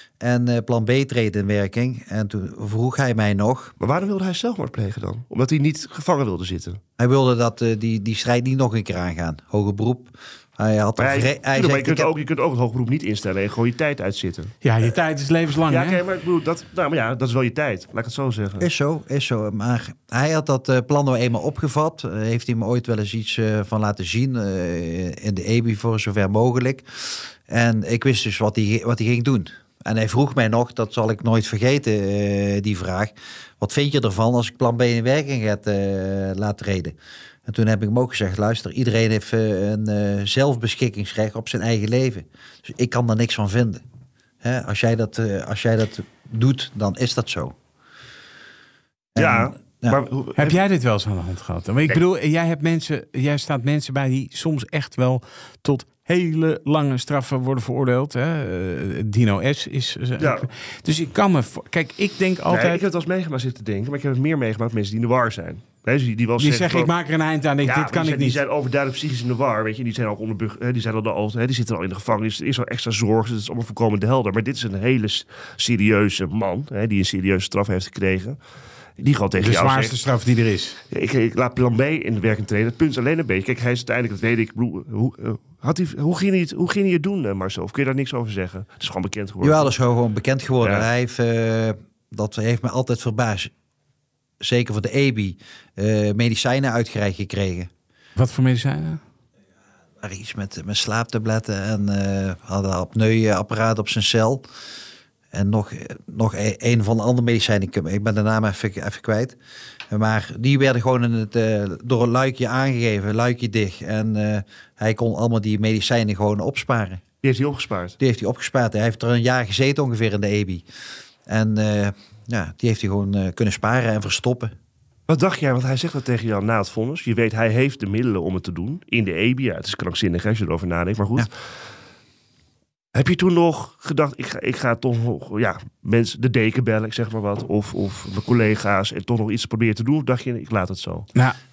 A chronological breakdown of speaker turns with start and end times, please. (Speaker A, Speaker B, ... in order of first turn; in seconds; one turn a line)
Speaker A: 0.2-3.7
Speaker B: 3.8-6.8
Speaker A: 7.0-12.1
Speaker B: 11.0-14.6
Speaker C: 14.6-16.0
Speaker B: 15.7-18.7
Speaker A: 18.6-43.8
Speaker A: 44.4-47.5
Speaker A: 49.1-50.0
Speaker B: 49.2-50.6
Speaker C: 50.4-62.8
Speaker B: 60.2-60.5
Speaker B: 62.5-66.9
Speaker C: 66.4-68.4
Speaker B: 67.6-78.4
Speaker B: 79.0-80.0
Speaker C: 79.4-80.8
Speaker B: 80.9-89.7
Speaker A: 89.4-93.5
Speaker A: 94.4-97.7
Speaker C: 98.2-99.0
Speaker A: 100.0-104.4
Speaker A: 105.3-109.4
Speaker A: 109.9-117.0
Speaker B: 117.2-118.0
Speaker A: 118.0-120.6
Speaker A: 121.2-124.5
Speaker B: 125.1-131.3
Speaker B: 132.9-141.1